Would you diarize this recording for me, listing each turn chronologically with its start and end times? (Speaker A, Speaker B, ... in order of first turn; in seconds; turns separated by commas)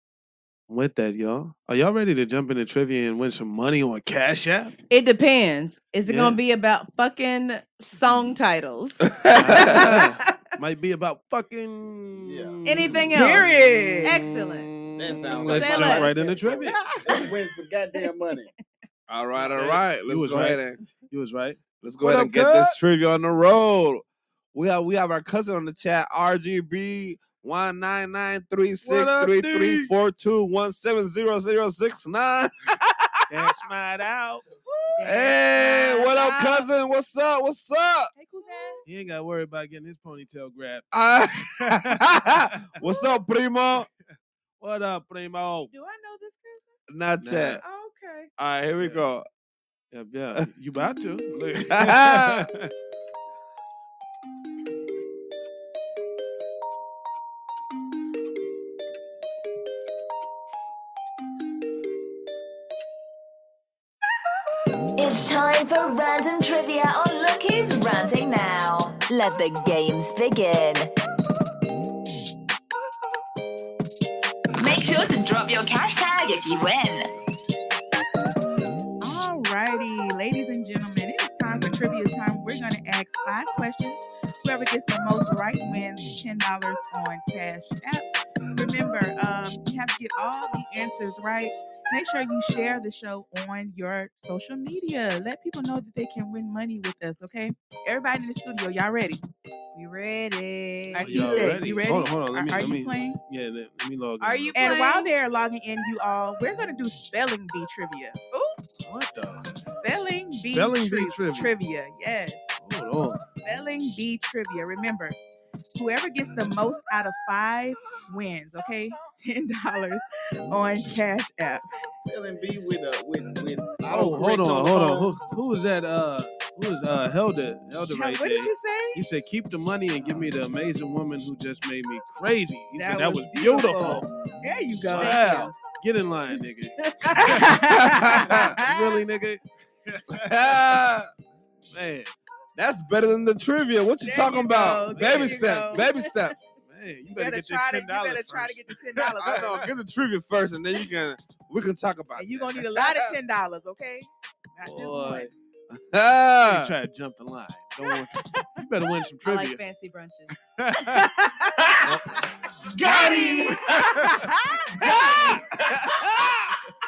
Speaker A: 0.7-4.7, Speaker B: 4.9-10.3, Speaker A: 6.0-6.4, Speaker C: 9.1-9.9, Speaker A: 9.3-16.8, Speaker D: 12.2-12.7, Speaker B: 12.6-13.5, Speaker E: 13.1-14.2, Speaker B: 14.0-14.7, Speaker D: 14.9-18.5, Speaker B: 15.4-16.1, Speaker C: 19.1-20.8, Speaker A: 19.3-22.8, Speaker C: 21.8-33.2, Speaker A: 28.8-29.9, Speaker A: 33.3-34.4, Speaker E: 34.9-36.6, Speaker C: 35.0-38.1, Speaker E: 38.1-38.8, Speaker B: 38.5-38.8, Speaker A: 38.9-40.9, Speaker C: 40.9-43.9, Speaker A: 41.6-42.8, Speaker A: 44.6-45.7, Speaker B: 45.7-46.7, Speaker C: 46.9-47.6, Speaker A: 47.2-47.6, Speaker B: 47.6-48.3, Speaker C: 48.4-49.2, Speaker A: 48.8-49.0, Speaker A: 49.9-52.7, Speaker C: 51.7-52.5, Speaker F: 65.0-70.9, Speaker F: 74.5-77.1, Speaker E: 79.0-99.2, Speaker B: 99.7-101.5, Speaker E: 100.9-103.2, Speaker A: 101.0-104.8, Speaker B: 104.2-105.1, Speaker E: 104.5-108.2, Speaker A: 108.8-109.5, Speaker E: 109.8-112.5, Speaker A: 110.5-111.5, Speaker A: 112.6-113.2, Speaker E: 113.4-115.2, Speaker E: 115.7-121.7, Speaker D: 122.0-123.8, Speaker C: 123.8-125.1, Speaker A: 123.9-134.1, Speaker E: 127.9-129.0, Speaker B: 132.8-134.0, Speaker E: 133.2-133.9, Speaker E: 134.4-135.4, Speaker A: 134.9-137.7, Speaker B: 134.9-135.5, Speaker B: 136.8-137.4, Speaker E: 137.1-139.0, Speaker C: 137.5-138.6, Speaker A: 138.6-140.8, Speaker C: 140.1-141.1, Speaker A: 141.7-142.1, Speaker C: 142.6-146.3, Speaker E: 144.0-145.8, Speaker A: 144.9-145.7, Speaker A: 146.6-149.7, Speaker E: 147.1-149.5, Speaker C: 149.2-153.1, Speaker E: 152.1-155.3, Speaker A: 154.6-155.3, Speaker C: 155.9-156.7, Speaker A: 156.4-159.6, Speaker B: 159.2-160.4, Speaker A: 160.6-161.1, Speaker A: 161.8-162.2, Speaker E: 162.8-164.3, Speaker B: 163.1-163.5, Speaker A: 163.7-164.1, Speaker C: 164.8-166.4, Speaker A: 164.9-165.4